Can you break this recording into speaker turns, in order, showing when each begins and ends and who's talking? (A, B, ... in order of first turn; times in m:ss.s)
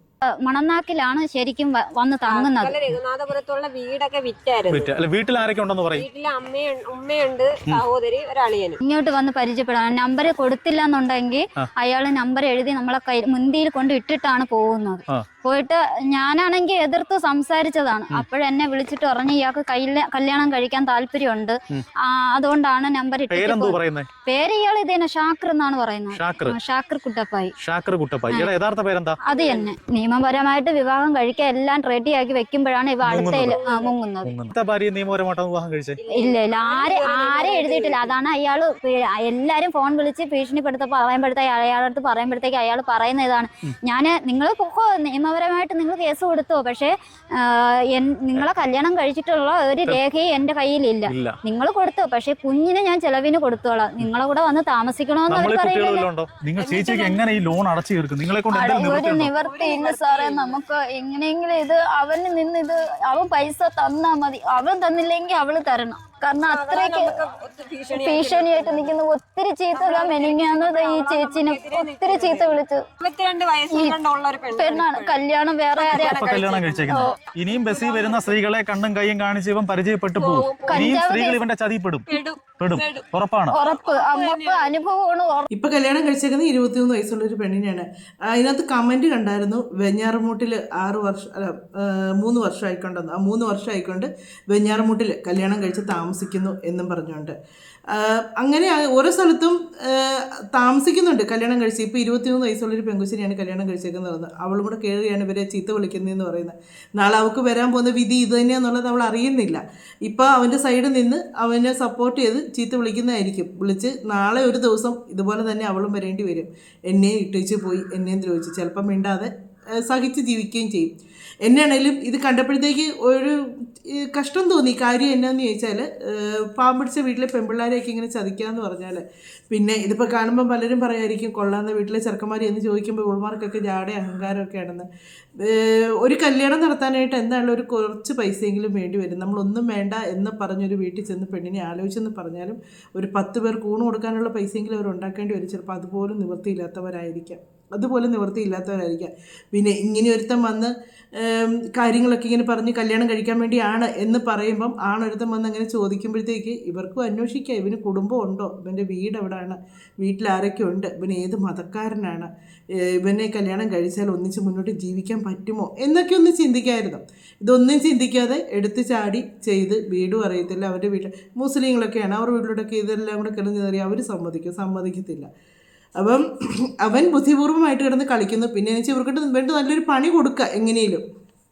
0:00.4-0:02.8 A
0:02.3-0:04.9 B
0:04.7-0:06.1 C
0:06.0-0:08.8 B
0:08.8-0:27.5 A
0:23.3-0:24.1 C
0:26.1-0:26.6 C
0:27.6-0:29.2 C
0:29.2-0:34.3 A
0:29.3-0:29.7 B
0:33.0-0:33.6 C
0:33.4-0:33.9 B
0:34.2-0:36.0 C
0:36.0-0:38.2 B
0:36.2-0:56.1 A
0:51.1-0:51.4 C
0:55.3-0:59.3 C
0:56.6-0:57.2 A
0:58.5-1:07.2 A
0:59.5-1:00.6 B
1:06.4-1:08.9 B
1:07.9-1:12.8 A
1:09.8-1:15.2 B
1:14.6-1:16.2 A
1:15.8-1:18.4 B
1:15.9-1:23.6 C
1:16.9-1:17.2 A
1:20.2-1:21.0 B
1:20.6-1:21.4 A
1:22.1-1:23.0 B
1:23.5-1:25.5 A
1:23.7-1:24.8 B
1:25.5-1:37.4 D
1:37.9-2:00.9 D
2:01.4-2:03.4 D
2:04.0-2:14.9 D
2:15.4-2:42.3 D
2:42.9-2:55.3 D
2:56.0-2:56.3 D
2:56.8-3:01.0 D